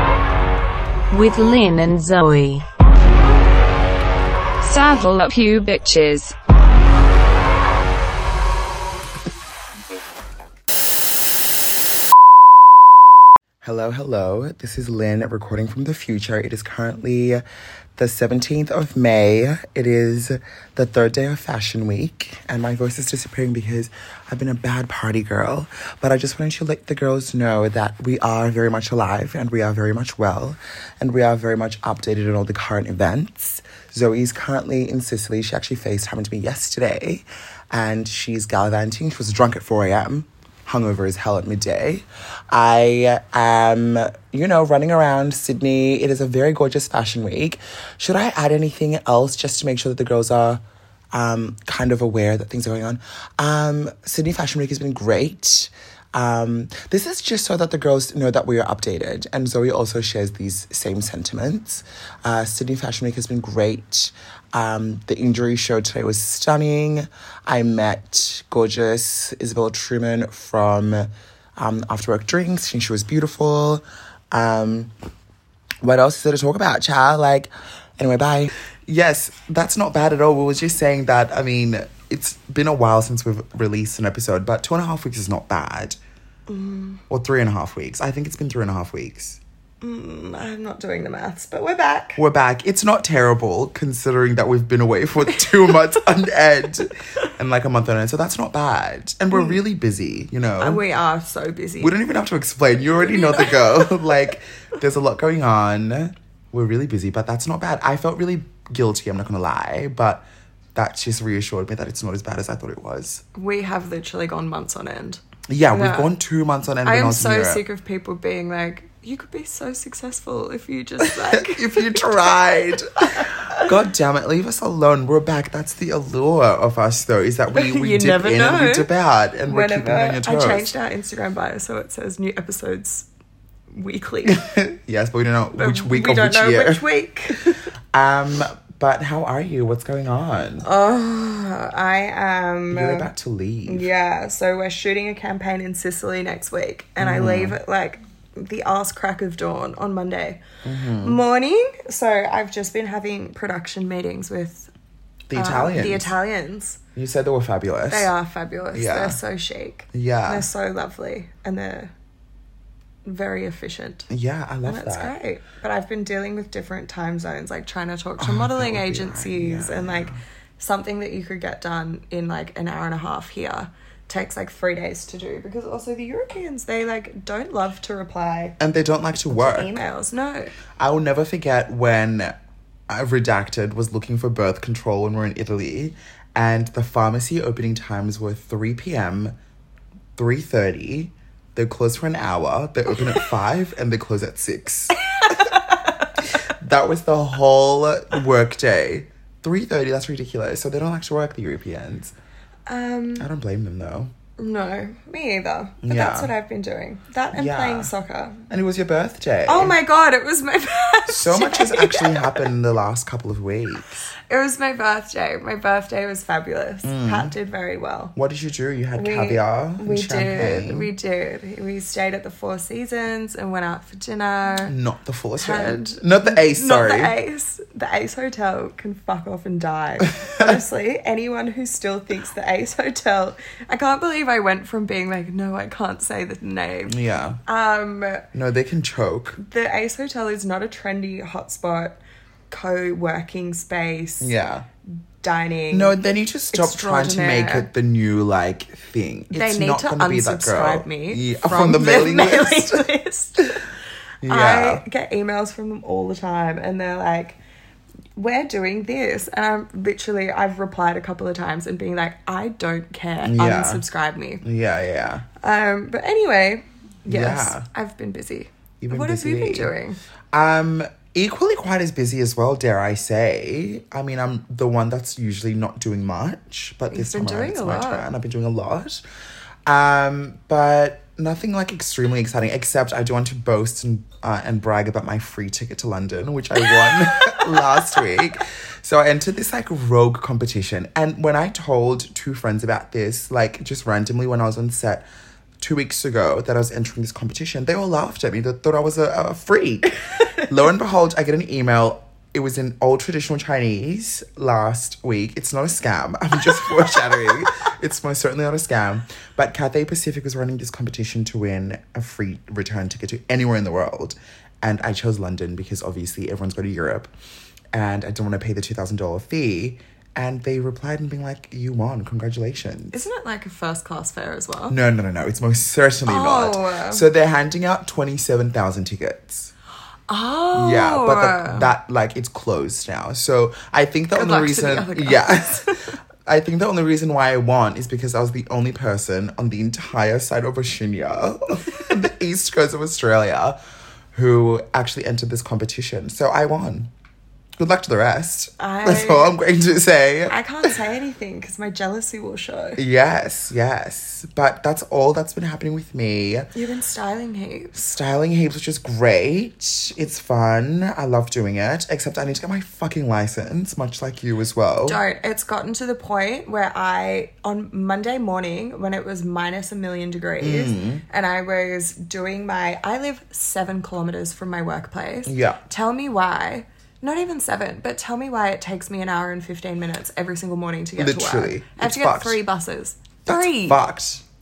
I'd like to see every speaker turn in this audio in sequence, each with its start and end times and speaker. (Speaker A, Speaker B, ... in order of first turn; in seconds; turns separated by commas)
Speaker A: 1.1-2.6, Speaker A: 4.6-6.3, Speaker B: 13.6-17.4, Speaker B: 17.9-50.6, Speaker B: 51.1-74.9, Speaker B: 75.8-86.0, Speaker C: 86.5-87.0, Speaker B: 87.1-89.4, Speaker C: 89.8-92.2, Speaker B: 92.2-100.8, Speaker C: 99.3-99.6, Speaker C: 100.6-101.9, Speaker B: 101.8-110.2, Speaker C: 103.0-104.3, Speaker B: 110.7-113.2, Speaker C: 113.3-116.1, Speaker B: 115.5-117.6, Speaker C: 116.8-122.1, Speaker B: 121.0-130.7, Speaker C: 123.1-123.7, Speaker C: 127.5-128.9, Speaker C: 129.5-133.1, Speaker C: 133.7-134.4, Speaker B: 134.3-136.8, Speaker C: 135.6-137.7, Speaker B: 137.9-140.6, Speaker C: 140.6-143.1, Speaker B: 142.7-143.9, Speaker C: 143.7-150.4, Speaker B: 147.0-147.6, Speaker B: 150.6-151.2, Speaker C: 151.0-154.7, Speaker B: 155.3-156.1, Speaker C: 155.3-156.8, Speaker B: 156.9-158.1, Speaker C: 157.9-161.9, Speaker B: 158.7-159.2, Speaker B: 159.9-160.5, Speaker C: 163.0-164.1, Speaker B: 164.1-165.1, Speaker C: 164.7-178.6, Speaker B: 168.2-170.2, Speaker B: 178.6-179.7, Speaker C: 179.3-180.5, Speaker B: 180.8-182.3, Speaker B: 182.9-189.3, Speaker B: 190.2-195.5, Speaker C: 195.1-196.1, Speaker B: 196.2-202.1, Speaker C: 202.7-203.3, Speaker B: 203.2-204.1, Speaker C: 204.4-208.4, Speaker B: 205.8-206.3, Speaker B: 207.3-207.9, Speaker B: 208.5-209.8, Speaker C: 209.5-212.4, Speaker B: 211.1-214.1, Speaker C: 214.2-218.1, Speaker B: 216.8-217.3, Speaker B: 218.1-220.9, Speaker C: 219.0-224.7, Speaker B: 224.7-227.1, Speaker C: 225.4-238.2, Speaker B: 236.9-237.4, Speaker B: 238.3-239.4, Speaker C: 239.4-242.0, Speaker C: 242.5-244.3, Speaker B: 244.2-244.7, Speaker C: 245.2-245.9, Speaker B: 245.7-252.9, Speaker C: 246.5-247.7, Speaker C: 249.3-253.7, Speaker B: 254.2-254.8, Speaker C: 254.2-257.4, Speaker C: 258.1-264.4, Speaker B: 263.2-263.8, Speaker B: 264.4-265.2, Speaker C: 265.4-270.0, Speaker B: 267.1-267.6, Speaker B: 268.8-269.7, Speaker B: 270.3-279.0, Speaker C: 276.9-278.1, Speaker B: 279.6-295.0, Speaker C: 286.9-287.4, Speaker B: 295.6-317.1, Speaker B: 317.7-323.0, Speaker C: 322.9-324.8, Speaker B: 324.7-329.5, Speaker C: 326.1-327.0, Speaker C: 330.1-331.7, Speaker B: 330.5-335.7, Speaker C: 334.1-335.9, Speaker B: 336.2-343.6, Speaker B: 344.1-346.9, Speaker B: 347.6-350.7, Speaker C: 348.6-349.3, Speaker C: 350.2-352.8, Speaker B: 352.8-356.5, Speaker C: 356.5-357.7, Speaker B: 357.7-365.0, Speaker C: 364.8-383.8, Speaker B: 370.4-371.0, Speaker B: 375.2-375.6, Speaker B: 381.0-382.4, Speaker B: 383.2-384.2